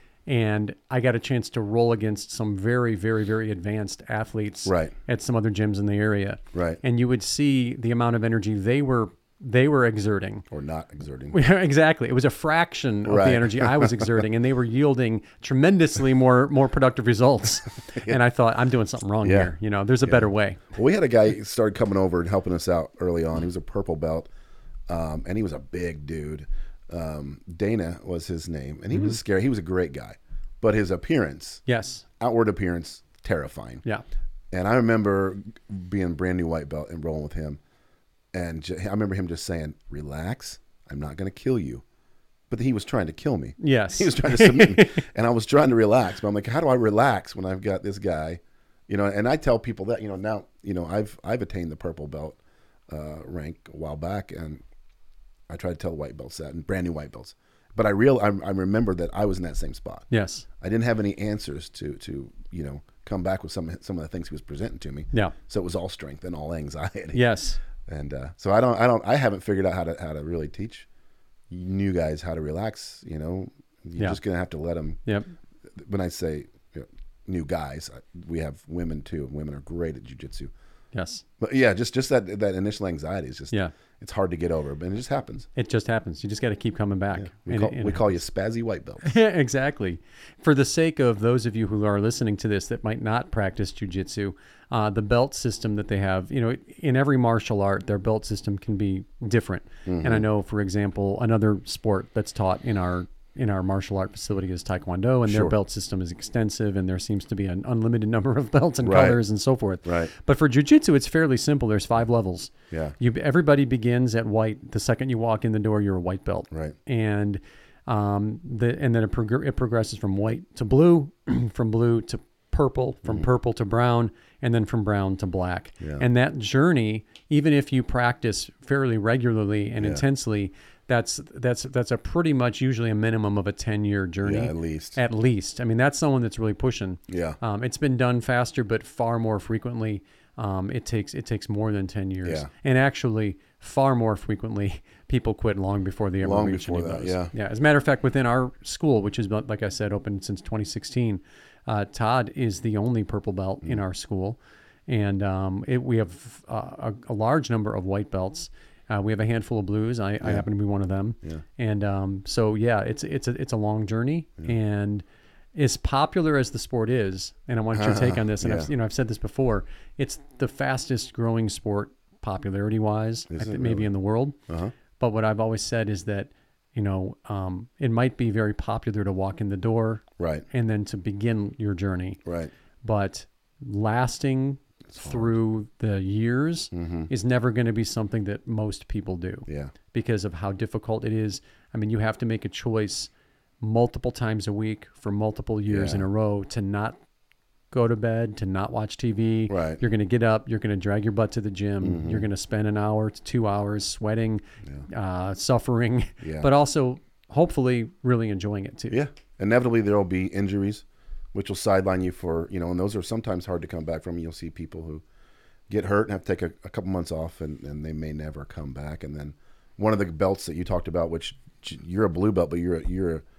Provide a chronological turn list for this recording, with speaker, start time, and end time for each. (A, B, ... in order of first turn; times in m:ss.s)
0:00.3-0:10.5 A
0:04.7-0:04.9 B
0:06.5-0:06.8 B
0:10.5-0:11.4 B
0:11.3-0:20.6 A
0:13.1-0:14.1 B
0:17.9-0:18.2 B
0:19.2-0:19.5 B
0:20.0-0:24.3 B
0:24.9-0:31.6 B
0:31.7-0:32.0 A
0:32.2-0:33.8 B
0:34.5-0:37.6 B
0:38.3-0:41.8 B
0:42.5-0:52.4 B
0:43.6-0:45.1 A
0:52.9-0:54.6 B
0:55.5-1:00.1 B
1:00.1-1:00.5 A
1:00.6-1:07.3 B
1:07.1-1:07.6 A
1:07.8-1:10.9 B
1:11.5-1:15.0 B
1:15.1-1:15.3 A
1:15.7-1:20.5 B
1:20.9-1:21.2 A
1:21.4-1:25.5 B
1:25.6-1:28.2 A
1:27.2-1:29.1 B
1:29.0-2:45.0 A
1:39.9-1:40.2 B
1:45.3-1:45.6 B
1:48.8-1:49.2 B
1:49.8-1:50.1 B
1:52.7-1:53.0 B
1:56.5-1:56.8 B
2:05.8-2:06.0 B
2:09.8-2:10.0 B
2:14.2-2:15.0 B
2:17.1-2:17.4 B
2:26.2-2:27.3 B
2:45.6-2:54.4 A
2:47.7-2:48.7 B
2:53.3-2:53.9 B
2:54.5-2:54.7 B
2:55.0-3:02.2 A
3:00.2-3:00.4 B
3:02.2-3:02.5 B
3:02.8-3:13.1 A
3:04.9-3:05.3 B
3:06.7-3:07.1 B
3:09.5-3:09.7 B
3:13.6-3:17.0 A
3:15.7-3:16.1 B
3:17.7-3:29.0 A
3:19.5-3:19.8 B
3:21.8-3:22.3 B
3:26.2-3:26.5 B
3:28.9-3:35.0 B
3:35.7-3:43.2 B